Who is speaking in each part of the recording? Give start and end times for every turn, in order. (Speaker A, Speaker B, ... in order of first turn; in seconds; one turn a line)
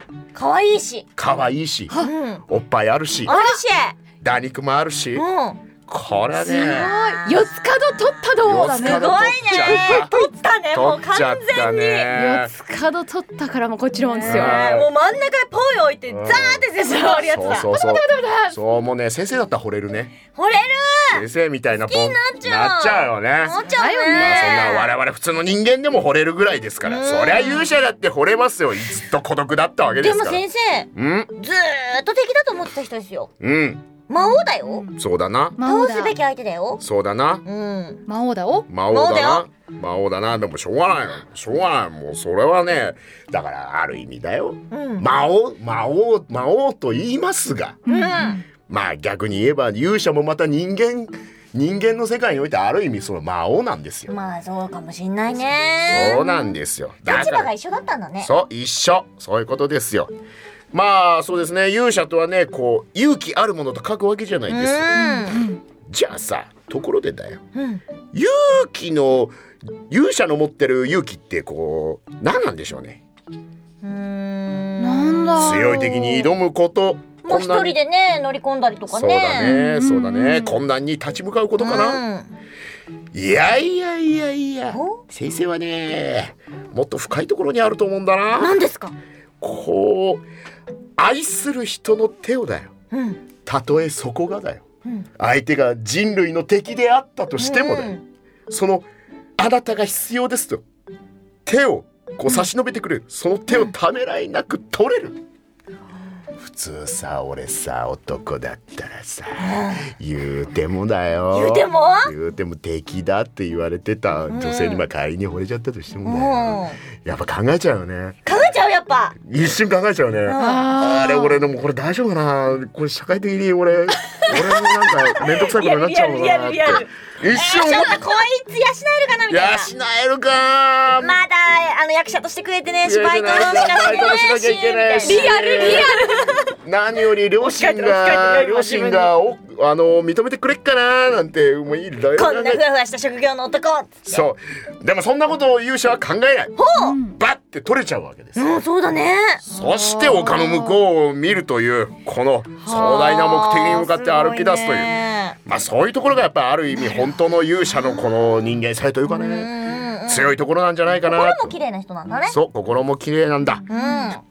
Speaker A: 0.3-1.1
Speaker B: 1.2-1.9
Speaker A: 2.0-2.5
Speaker B: 2.5-3.4
Speaker A: 3.2-4.0
Speaker C: 3.3-3.6
Speaker B: 4.2-5.2
Speaker A: 5.2-5.6
Speaker B: 5.9-6.9
Speaker C: 6.4-10.0
Speaker A: 6.5-7.5
Speaker B: 8.4-12.5
Speaker A: 8.6-12.1
Speaker C: 12.1-14.6
Speaker A: 14.1-17.7
Speaker B: 14.2-14.9
Speaker B: 16.1-20.2
Speaker C: 17.6-18.6
Speaker A: 20.3-21.3
Speaker B: 21.1-23.6
Speaker A: 21.9-24.9
Speaker C: 23.7-24.4
Speaker B: 24.1-30.4
Speaker A: 26.8-27.7
Speaker A: 30.0-33.3
Speaker B: 30.9-31.3
Speaker B: 33.4-33.9
Speaker A: 34.1-34.9
Speaker C: 34.6-34.9
Speaker B: 35.0-35.6
Speaker C: 35.6-36.2
Speaker A: 35.6-36.8
Speaker B: 36.8-37.4
Speaker A: 37.5-38.0
Speaker C: 38.1-38.7
Speaker B: 38.7-47.8
Speaker A: 38.9-39.5
Speaker A: 44.7-45.1
Speaker C: 47.9-48.3
Speaker A: 47.9-48.4
Speaker B: 48.7-54.1
Speaker A: 54.1-56.5
Speaker B: 55.9-57.5
Speaker A: 57.1-58.3
Speaker B: 58.2-60.1
Speaker B: 60.7-64.9
Speaker A: 64.5-65.5
Speaker C: 64.9-65.6
Speaker B: 65.9-67.4
Speaker A: 67.5-67.8
Speaker B: 68.1-69.4
Speaker B: 69.9-73.0
Speaker A: 73.8-76.3
Speaker C: 74.8-75.8
Speaker B: 75.3-77.8
Speaker A: 77.2-79.6
Speaker B: 78.9-82.0
Speaker C: 79.4-80.6
Speaker A: 81.6-82.3
Speaker B: 83.1-88.6
Speaker A: 84.7-85.0
Speaker A: 88.4-89.0
Speaker B: 89.4-90.2
Speaker B: 91.0-92.7
Speaker A: 92.9-93.2
Speaker B: 93.5-94.6
Speaker B: 95.2-97.9
Speaker A: 97.4-98.0
Speaker B: 98.5-98.9
Speaker B: 99.4-100.6
Speaker B: 101.5-105.2
Speaker B: 106.4-118.2
Speaker A: 109.4-109.9
Speaker A: 111.3-112.1
Speaker A: 114.3-114.8
Speaker A: 116.0-116.8
Speaker A: 118.3-119.2
Speaker B: 119.2-128.0
Speaker A: 120.3-120.8
Speaker C: 120.4-121.4
Speaker A: 124.3-129.7
Speaker B: 129.3-131.2
Speaker A: 131.0-136.6
Speaker B: 132.8-135.9
Speaker C: 135.0-136.3
Speaker B: 136.6-142.6
Speaker A: 137.4-139.1
Speaker A: 142.2-144.2
Speaker B: 144.1-148.5
Speaker A: 146.6-147.0
Speaker C: 146.8-147.2
Speaker A: 148.4-149.4
Speaker B: 149.5-154.9
Speaker C: 149.5-150.8
Speaker A: 152.6-155.4
Speaker B: 155.4-159.5
Speaker A: 159.1-160.3
Speaker B: 160.1-161.5
Speaker A: 161.1-162.4
Speaker B: 162.3-163.7
Speaker A: 163.7-164.2
Speaker C: 163.7-164.1